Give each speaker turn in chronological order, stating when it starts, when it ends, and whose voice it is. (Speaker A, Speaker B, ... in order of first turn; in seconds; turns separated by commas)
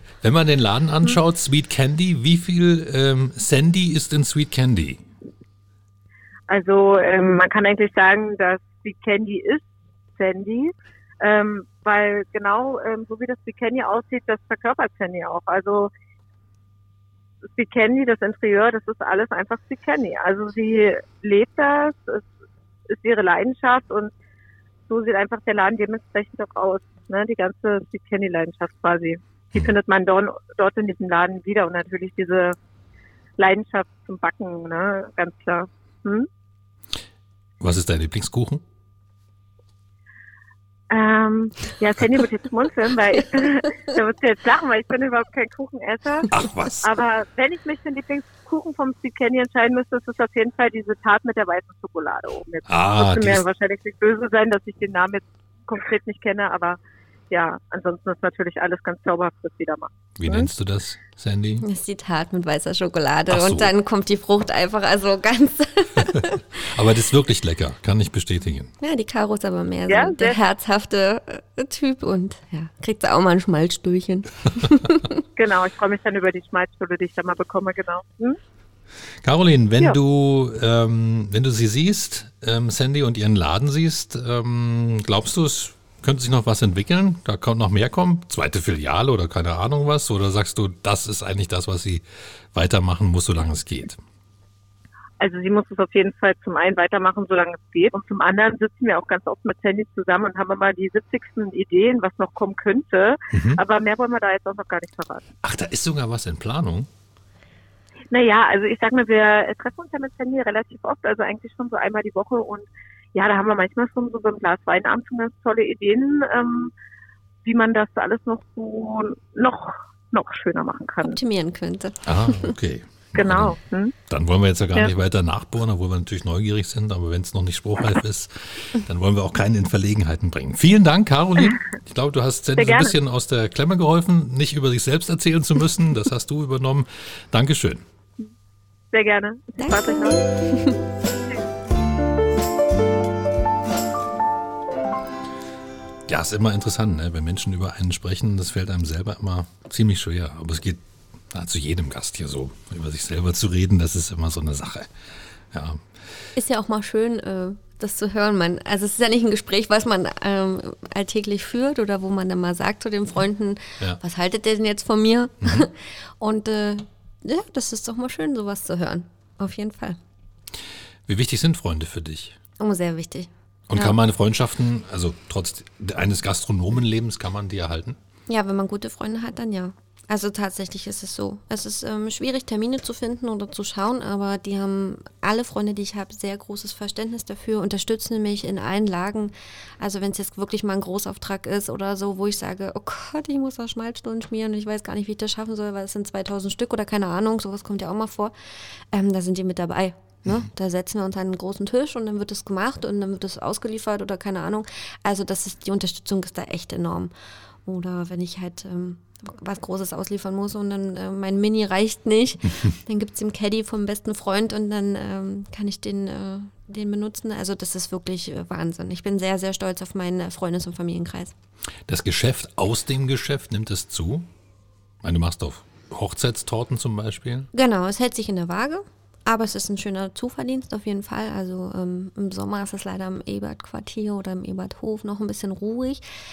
Speaker A: 0.2-5.0, Speaker B: 6.5-9.6, Speaker B: 10.2-15.9, Speaker B: 17.5-22.2, Speaker B: 22.9-24.1, Speaker B: 24.9-32.5, Speaker B: 33.4-36.3, Speaker A: 37.6-38.6, Speaker B: 40.9-56.8, Speaker A: 46.3-46.9, Speaker A: 52.7-53.4, Speaker B: 57.3-60.5, Speaker A: 60.2-61.6, Speaker C: 61.6-66.7, Speaker A: 63.3-63.7, Speaker A: 66.1-68.7, Speaker C: 68.8-75.2, Speaker B: 69.9-70.4, Speaker B: 75.4-78.4, Speaker A: 79.2-94.0, Speaker B: 95.2-105.2, Speaker A: 103.3-103.6, Speaker A: 105.4-106.9, Speaker B: 108.1-116.7, Speaker B: 117.5-121.2, Speaker C: 121.0-122.5, Speaker A: 122.0-123.6, Speaker B: 123.2-124.0, Speaker A: 124.1-137.8, Speaker B: 132.6-132.9, Speaker B: 138.9-140.2, Speaker C: 139.6-140.8, Speaker A: 146.1-154.9, Speaker A: 155.5-155.8, Speaker C: 156.3-170.0, Speaker A: 165.4-165.7, Speaker A: 171.1-172.4, Speaker C: 172.6-174.0, Speaker A: 173.7-178.0, Speaker C: 178.3-198.3, Speaker C: 198.9-207.1, Speaker C: 207.7-221.3, Speaker A: 221.9-224.3, Speaker A: 225.0-227.5, Speaker C: 227.5-236.0